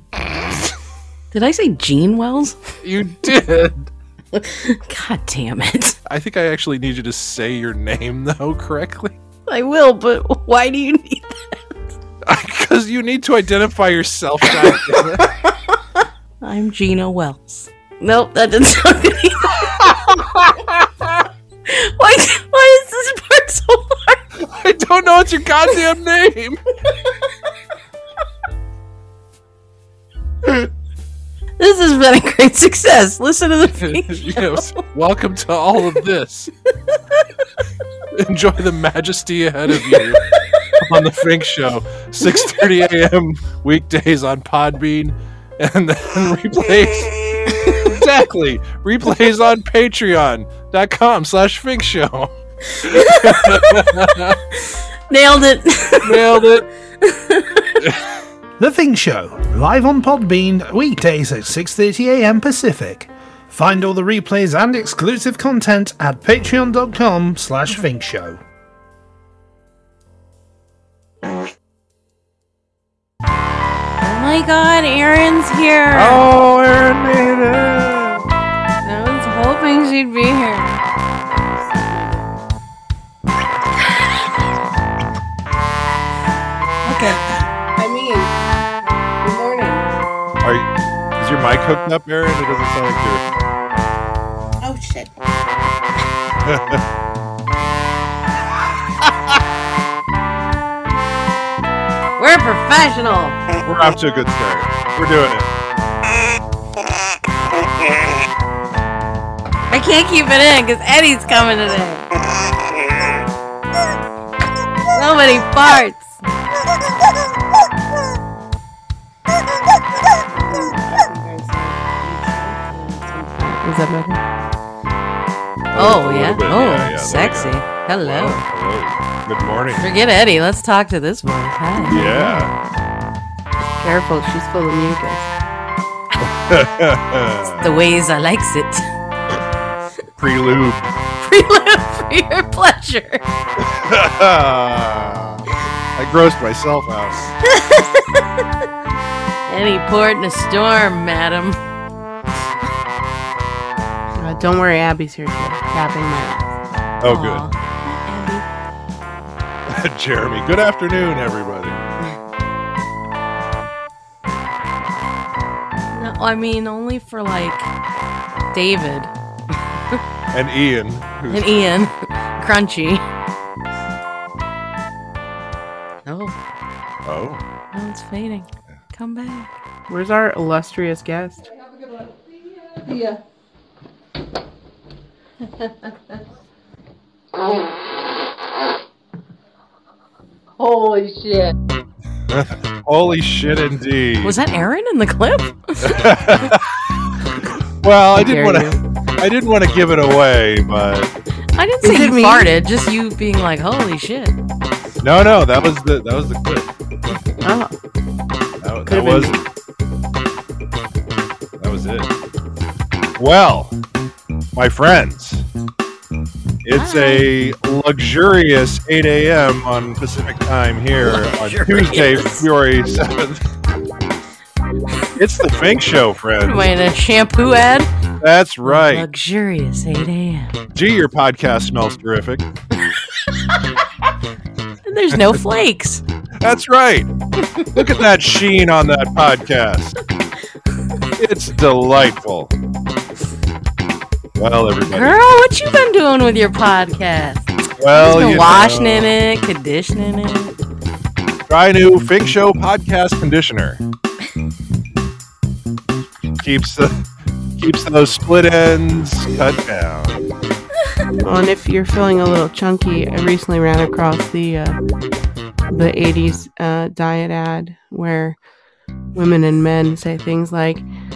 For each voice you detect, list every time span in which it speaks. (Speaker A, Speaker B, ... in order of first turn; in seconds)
Speaker A: 1.3-2.6, 4.3-6.0, 9.5-11.6, 14.5-19.9, 21.6-24.2, 31.6-34.8, 39.9-40.5, 47.5-47.9, 52.8-56.5, 57.0-57.8, 74.0-76.3, 78.8-80.8, 86.8-87.2, 102.2-103.4, 109.7-112.0, 114.9-116.1, 125.8-128.4, 129.8-132.0, 137.6-138.9, 141.2-143.2, 147.4-148.4, 149.5-151.6, 157.0-158.4, 165.9-167.7, 168.5-170.0, 171.3-173.0, 176.1-176.3, 177.7-179.5, 194.2-196.1, 201.6-204.3, 216.7-217.3, 221.0-222.5, 226.4-227.9, 228.6-230.5, 234.8-236.0, 244.9-250.5
Speaker B: 2.8-3.9, 6.0-9.2, 12.2-15.3, 19.8-20.4, 24.4-26.6, 33.8-36.5, 38.1-54.4, 56.0-56.7, 75.9-78.3, 90.4-93.2, 96.4-96.8, 98.5-99.4, 103.6-105.5, 125.7-129.9, 131.9-132.5, 136.2-137.7, 140.2-140.9, 143.6-147.3, 157.0-157.5, 159.7-161.8, 170.3-171.9, 177.0-177.4, 192.3-194.4, 195.8-201.1, 205.0-207.2, 208.6-209.4, 211.6-212.1, 213.2-213.8, 214.5-215.4, 216.6-223.5, 225.2-226.7, 228.2-229.1, 230.7-232.4, 236.4-237.1, 237.7-239.9, 241.1-242.5, 244.3-245.2, 247.8-249.1, 251.5-253.8, 256.4-257.0, 257.6-260.2
Speaker C: 58.6-68.4
Speaker D: 81.6-82.2, 87.8-88.3, 89.2-89.9, 94.6-95.1, 120.2-124.2, 131.9-132.4, 133.6-135.3, 154.2-156.5, 179.9-181.4, 198.1-198.8, 201.8-202.5, 207.4-207.7, 208.9-209.4, 261.2-264.8, 265.7-268.4, 269.1-270.8